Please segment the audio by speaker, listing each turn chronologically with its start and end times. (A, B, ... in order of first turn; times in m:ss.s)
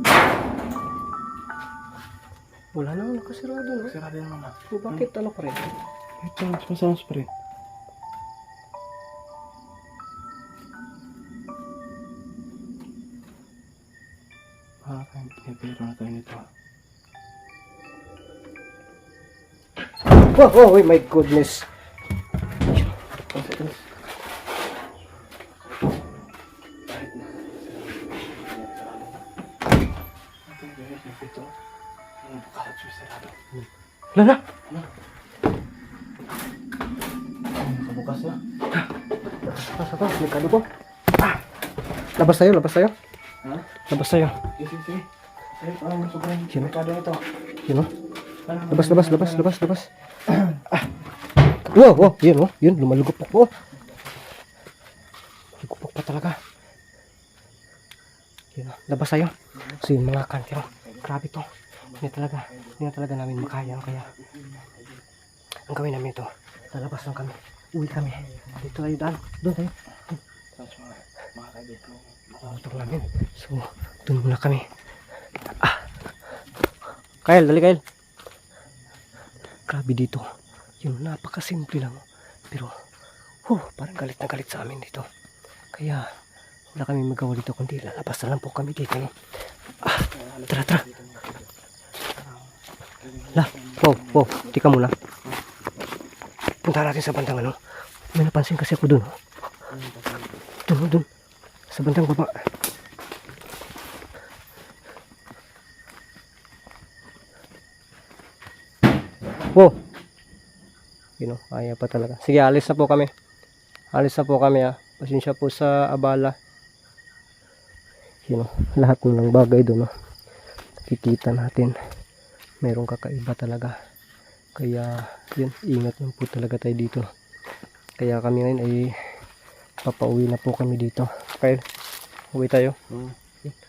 0:02.8-0:04.0 A
0:03.8-0:05.0 B
0:04.7-0:05.6 A
0:06.2-0:07.3 B
0:14.8-0:16.5 B
0:20.2-0:21.7 A
0:23.3-0:23.9 B
0:26.9-0:29.2 B
0:30.5-0:31.5 B
0:32.2-0:33.4 B
0:33.5-0:34.4 A
0:37.6-0:38.4 B
0:39.5-0:40.7 A
0:42.2-0:42.9 A
0:43.9-0:44.4 A
0:44.5-0:47.2 B
0:48.4-0:49.5 B
0:48.7-0:49.9 A
0:50.3-0:50.6 B
0:51.6-0:53.5 A
0:55.6-0:56.4 A
0:58.6-1:04.1 A
1:01.9-1:02.8 B
1:03.4-1:05.0 B
1:05.7-1:09.7 A
1:08.2-1:08.5 B
1:10.6-1:13.0 B
1:12.4-1:14.7 A
1:15.6-1:15.9 A
1:17.2-1:17.8 A
1:19.7-1:20.3 A
1:20.8-1:22.8 A
1:23.5-1:25.1 A
1:25.7-1:26.1 A
1:26.7-1:29.1 A
1:29.8-1:30.8 A
1:29.9-1:31.4 B
1:33.0-1:34.5 B
1:33.4-1:34.9 A
1:36.6-1:37.6 A
1:38.1-1:39.2 A
1:39.7-1:40.3 B
1:40.7-1:41.1 A
1:41.7-1:42.5 A
1:51.2-1:53.1 A
1:53.9-1:56.4 A
1:58.3-1:59.9 A
2:00.8-2:01.8 A
2:02.6-2:03.8 A
2:04.6-2:07.1 A
2:08.0-2:09.2 A
2:09.8-2:11.6 A
2:12.3-2:12.8 A
2:12.9-2:13.5 B